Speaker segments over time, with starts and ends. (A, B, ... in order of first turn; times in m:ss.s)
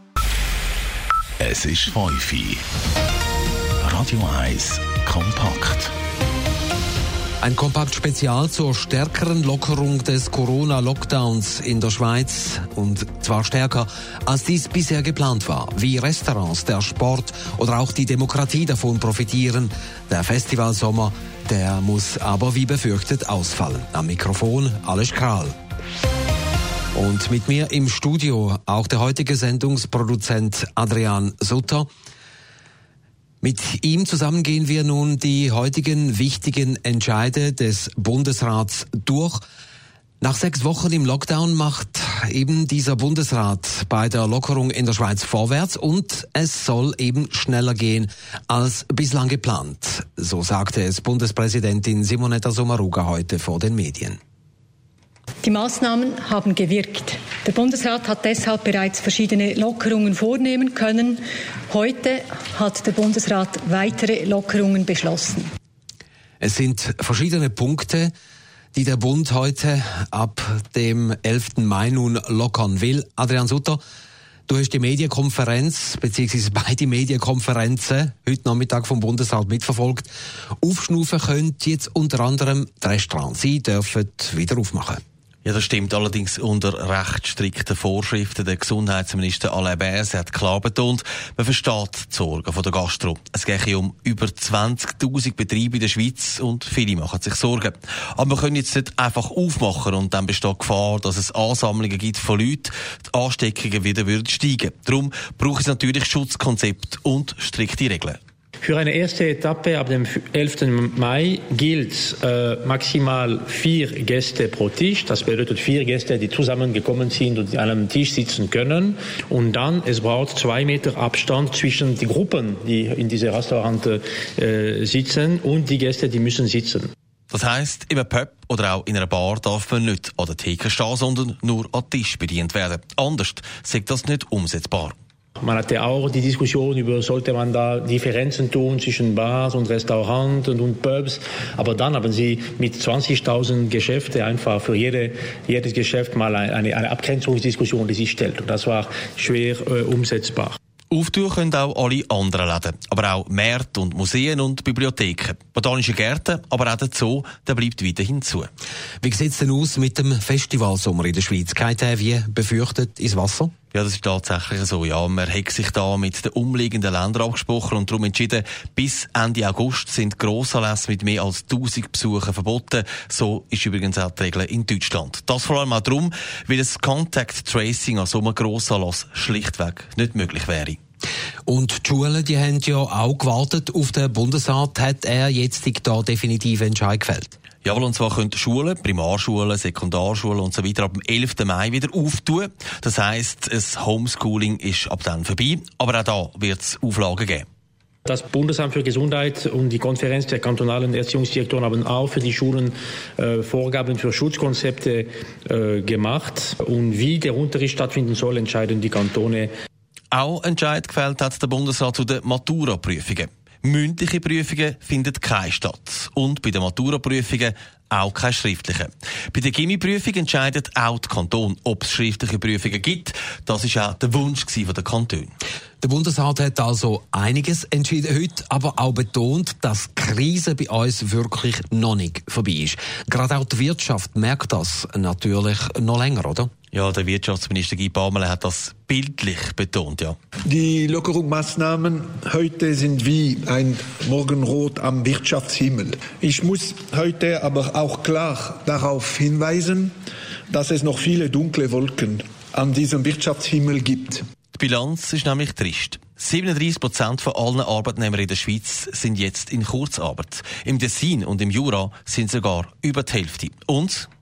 0:01.4-0:02.6 A
0:03.8-0:05.9 A
0:07.4-0:25.5 B
0:27.0-0:31.9 B
0:33.4-0:39.4 B
0:40.2-0:54.2 B
0:55.4-1:05.5 C
1:06.4-1:08.1 B
1:08.8-1:13.8 B
1:14.5-1:25.0 B
1:25.4-1:48.2 D
1:48.6-1:49.0 E
1:49.7-1:56.1 E
1:56.7-1:58.9 E
1:59.6-2:04.0 E
2:04.5-2:06.8 E
2:07.3-2:15.0 D
2:15.4-2:21.2 E
2:21.8-2:25.1 E
2:25.7-2:30.2 E
2:30.9-2:38.5 D
2:39.0-2:43.5 B
2:43.7-3:00.8 D
3:01.5-3:07.4 B
3:07.6-3:17.5 D
3:18.1-3:22.7 E
3:23.3-3:25.0 E
3:25.6-3:29.5 E
3:30.1-3:45.3 D
3:45.8-3:56.5 B
3:56.7-4:00.2 D
4:00.5-4:09.9 F
4:10.5-4:14.2 F
4:14.6-4:24.1 D